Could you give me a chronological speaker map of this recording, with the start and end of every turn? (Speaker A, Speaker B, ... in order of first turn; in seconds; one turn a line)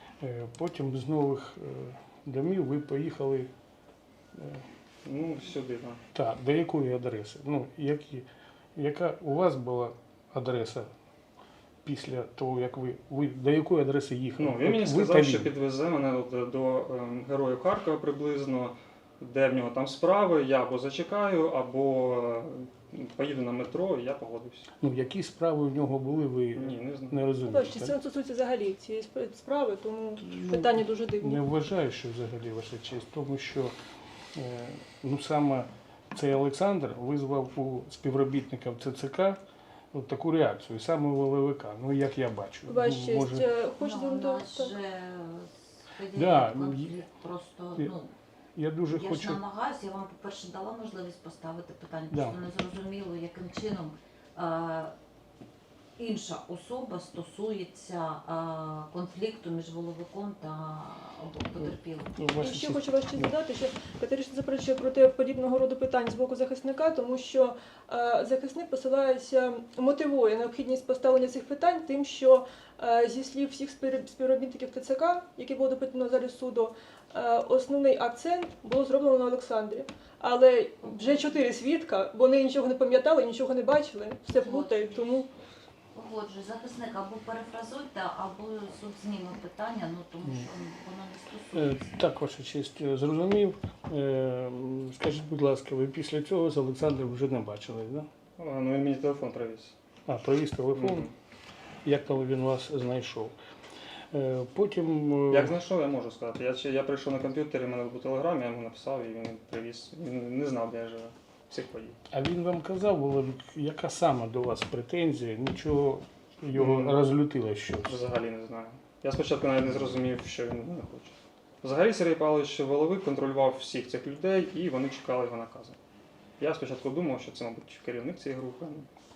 Speaker A: 0.2-3.5
Speaker A: 4.3-4.6
Speaker B: 5.0-6.0
Speaker A: 6.1-10.9
Speaker A: 11.8-15.5
Speaker B: 14.4-24.7
Speaker A: 24.8-28.0
Speaker B: 26.5-27.3
Speaker C: 27.4-31.4
Speaker A: 30.2-33.7
Speaker A: 34.3-39.4
Speaker A: 39.9-43.5
Speaker C: 42.7-44.7
Speaker D: 43.8-48.1
Speaker A: 46.1-47.0
Speaker A: 48.5-49.4
Speaker D: 48.9-54.9
Speaker A: 52.1-52.4
Speaker D: 56.0-62.2
Speaker A: 61.6-63.3
Speaker C: 62.4-85.3
Speaker D: 80.8-81.4
Speaker D: 84.3-85.2
Speaker D: 85.9-91.8
Speaker A: 90.2-90.5
Speaker A: 91.5-98.1
Speaker B: 98.4-99.7
Speaker A: 100.1-101.1
Speaker B: 100.7-101.1
Speaker A: 101.8-103.3
Speaker A: 104.1-105.5
Speaker B: 105.3-112.0
Speaker A: 112.1-118.0
Speaker B: 116.5-117.0
Speaker B: 117.8-125.8
Speaker B: 126.4-128.9